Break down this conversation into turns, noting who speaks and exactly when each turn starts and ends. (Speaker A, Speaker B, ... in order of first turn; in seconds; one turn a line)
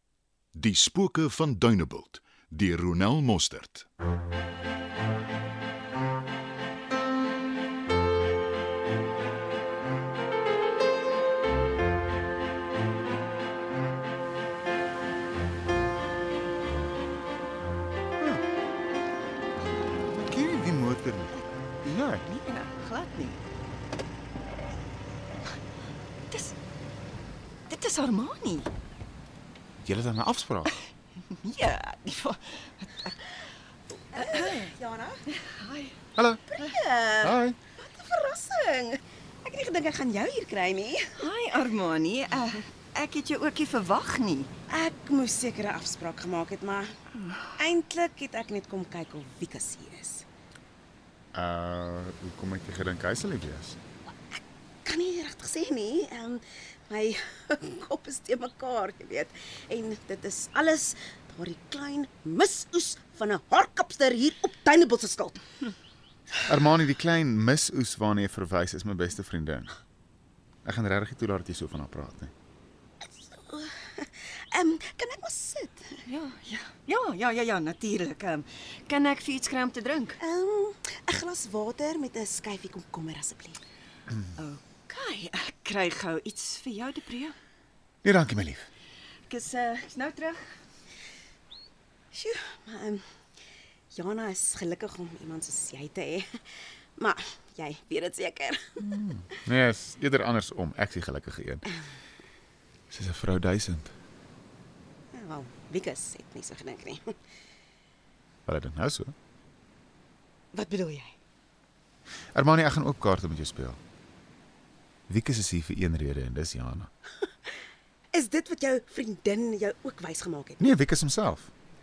Speaker A: 0.5-3.9
Speaker B: 18.2-18.4
Speaker B: 20.1-22.2
Speaker C: 21.8-23.4
Speaker C: 26.3-26.5
Speaker C: 27.7-28.7
Speaker B: 29.8-30.7
Speaker C: 31.3-33.3
Speaker D: 34.1-35.2
Speaker C: 34.1-34.6
Speaker C: 35.3-36.0
Speaker B: 36.1-36.4
Speaker D: 36.5-41.2
Speaker B: 37.2-37.6
Speaker C: 41.2-44.5
Speaker D: 44.7-46.9
Speaker D: 47.5-50.2
Speaker B: 51.3-53.8
Speaker D: 54.8-65.4
Speaker B: 66.4-69.7
Speaker B: 70.6-72.3
Speaker D: 73.2-76.0
Speaker C: 76.0-80.2
Speaker D: 80.2-83.6
Speaker C: 84.3-87.3
Speaker B: 88.0-88.7
Speaker C: 89.3-90.4
Speaker D: 92.1-93.0
Speaker D: 93.9-96.4
Speaker D: 97.0-98.8
Speaker B: 98.8-101.7
Speaker B: 102.9-104.0
Speaker D: 105.1-107.1
Speaker B: 108.5-109.1
Speaker D: 110.5-111.2
Speaker B: 112.3-113.8
Speaker B: 115.1-116.9
Speaker D: 118.1-120.7
Speaker B: 120.6-121.5